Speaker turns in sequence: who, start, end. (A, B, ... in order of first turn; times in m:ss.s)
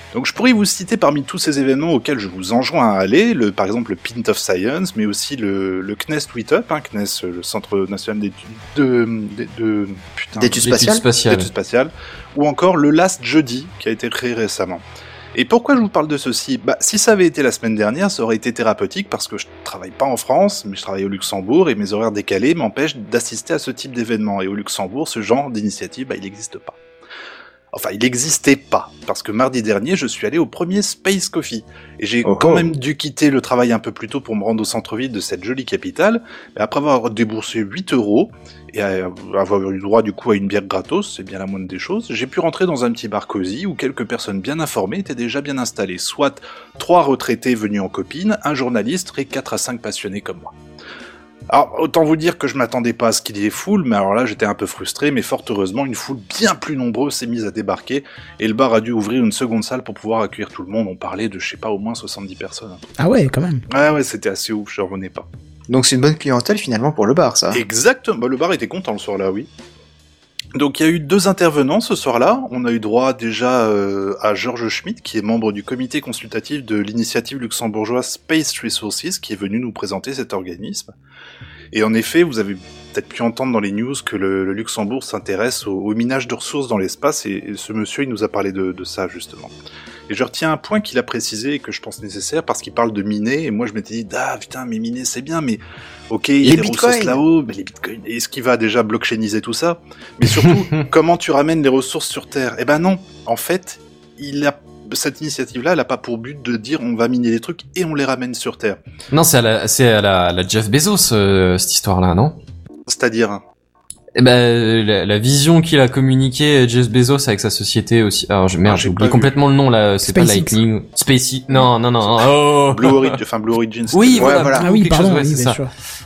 0:00.1-0:10.6 A
0:10.4-0:11.0 B
0:10.6-0:11.5 C
0:11.2-0:26.8 A
0:27.7-0:50.5 A
0:32.2-0:32.7 B
0:51.5-1:02.9 A
1:03.0-1:03.6 D
1:03.7-1:05.3 A
1:05.7-1:07.6 B
1:07.5-1:09.5 A
1:10.5-1:20.9 A
1:21.7-1:29.5 A
1:30.1-1:48.8 A
1:36.4-1:37.2 B
1:49.1-1:52.4 C
1:52.9-1:53.4 A
1:54.2-2:03.2 C
1:58.6-1:59.3 A
2:00.0-2:00.6 D
2:02.1-2:04.6 A
2:03.9-2:05.6 C
2:04.2-2:04.6 B
2:04.6-2:05.7 D